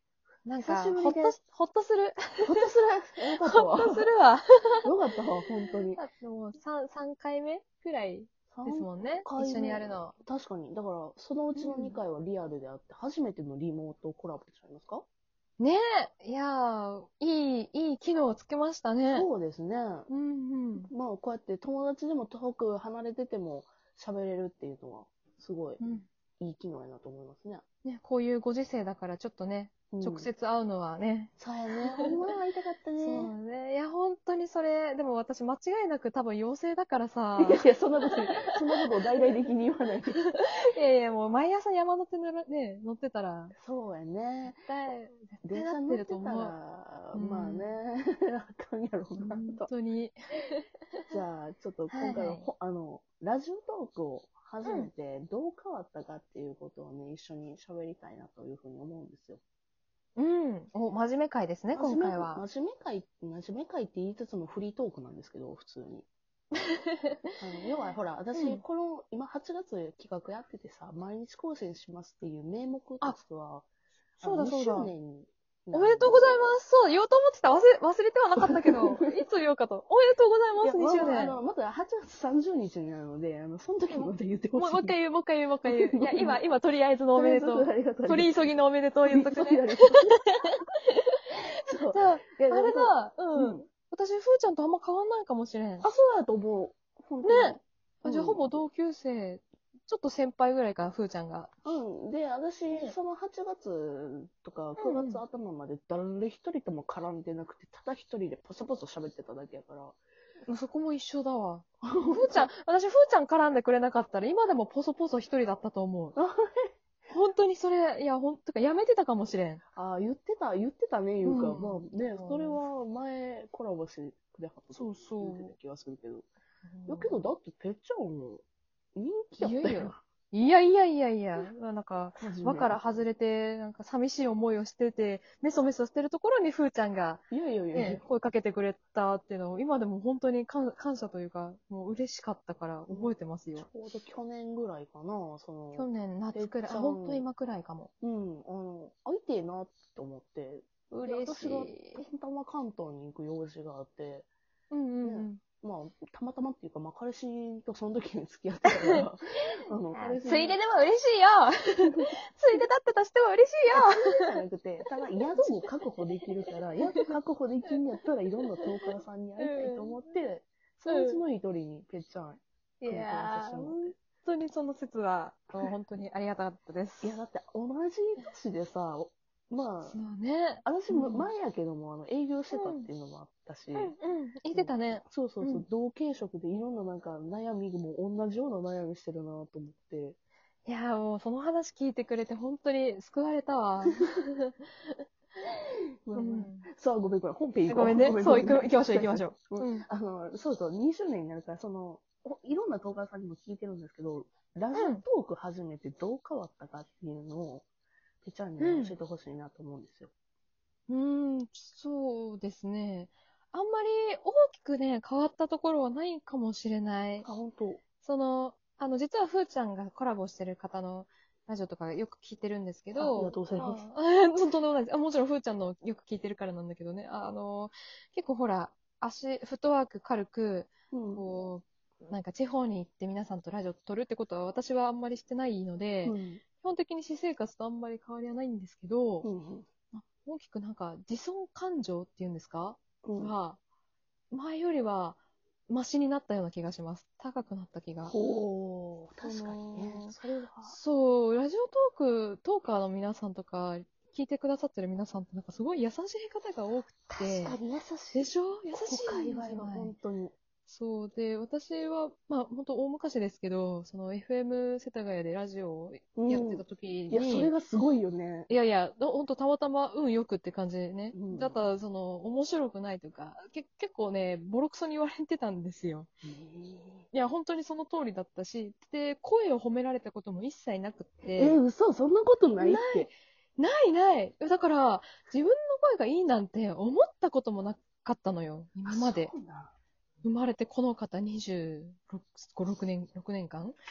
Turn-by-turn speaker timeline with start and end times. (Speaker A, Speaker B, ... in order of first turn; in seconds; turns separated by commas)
Speaker A: 0.4-2.7, Speaker B: 0.6-1.4, Speaker B: 2.4-4.0, Speaker A: 3.3-4.9, Speaker B: 4.8-6.0, Speaker A: 5.9-10.1, Speaker B: 8.5-15.0, Speaker A: 11.5-12.0, Speaker A: 15.6-19.3, Speaker B: 19.1-20.1, Speaker A: 20.1-20.9, Speaker B: 20.8-25.8, Speaker A: 25.8-26.1, Speaker B: 26.4-27.6, Speaker A: 27.8-31.3, Speaker B: 29.9-30.3, Speaker B: 31.4-33.3, Speaker A: 33.0-38.4, Speaker B: 37.4-40.2, Speaker A: 40.1-43.5, Speaker B: 43.6-44.6, Speaker A: 44.4-46.5, Speaker B: 45.4-49.7, Speaker A: 47.1-47.7, Speaker A: 49.2-51.2, Speaker B: 51.1-59.4, Speaker A: 51.9-52.5, Speaker A: 54.6-54.9, Speaker A: 60.1-62.4, Speaker B: 61.7-66.1, Speaker A: 66.5-67.3, Speaker B: 67.4-73.6, Speaker A: 68.3-68.6, Speaker B: 74.2-76.5, Speaker A: 74.2-74.9, Speaker A: 75.7-81.4, Speaker B: 78.4-79.2, Speaker B: 80.6-85.0, Speaker A: 83.9-90.3, Speaker B: 85.6-86.4, Speaker B: 87.1-88.3, Speaker B: 89.0-90.5, Speaker A: 90.9-95.9, Speaker B: 91.7-93.6, Speaker B: 95.8-98.4, Speaker A: 97.2-101.5, Speaker B: 101.6-110.0, Speaker A: 104.8-105.2, Speaker A: 110.5-116.2, Speaker B: 111.8-112.5, Speaker B: 116.2-116.7, Speaker A: 117.1-119.6, Speaker B: 119.8-126.3, Speaker A: 121.2-122.6, Speaker A: 124.7-125.5, Speaker A: 126.7-127.2, Speaker B: 126.8-128.4, Speaker B: 128.9-130.0, Speaker A: 129.4-143.7, Speaker B: 132.2-132.8, Speaker B: 137.3-138.0, Speaker B: 142.9-147.2, Speaker A: 145.7-147.9, Speaker B: 148.0-154.3, Speaker A: 150.9-152.1, Speaker A: 154.7-155.4, Speaker B: 155.0-160.6, Speaker A: 159.6-164.3, Speaker B: 161.8-162.6, Speaker B: 163.7-173.9, Speaker A: 165.4-165.7, Speaker A: 169.4-170.0, Speaker A: 170.8-171.2, Speaker A: 172.8-177.2, Speaker B: 177.0-180.0, Speaker A: 179.8-181.3, Speaker B: 180.6-183.9, Speaker A: 182.5-182.9, Speaker A: 183.8-185.7, Speaker B: 184.5-190.2, Speaker A: 190.7-195.0, Speaker B: 196.0-207.6, Speaker A: 196.1-196.7, Speaker A: 197.7-199.9, Speaker A: 204.7-205.0, Speaker B: 208.2-210.1, Speaker A: 208.6-209.0, Speaker A: 210.9-217.3, Speaker B: 217.2-217.8, Speaker A: 218.0-239.3, Speaker B: 223.0-223.8, Speaker B: 230.9-231.2, Speaker B: 236.0-236.4, Speaker B: 239.2-239.7, Speaker A: 239.9-243.6, Speaker B: 243.0-243.3, Speaker A: 244.3-245.2, Speaker A: 245.7-248.1, Speaker B: 248.1-250.8, Speaker A: 249.2-257.6, Speaker B: 257.1-260.3, Speaker A: 258.1-259.9, Speaker A: 260.7-267.5, Speaker B: 266.1-268.5, Speaker A: 268.5-276.1, Speaker B: 271.1-271.6, Speaker B: 276.2-277.1, Speaker A: 277.1-281.6, Speaker B: 281.3-283.1, Speaker A: 282.6-289.3, Speaker B: 288.9-289.7, Speaker A: 290.2-293.8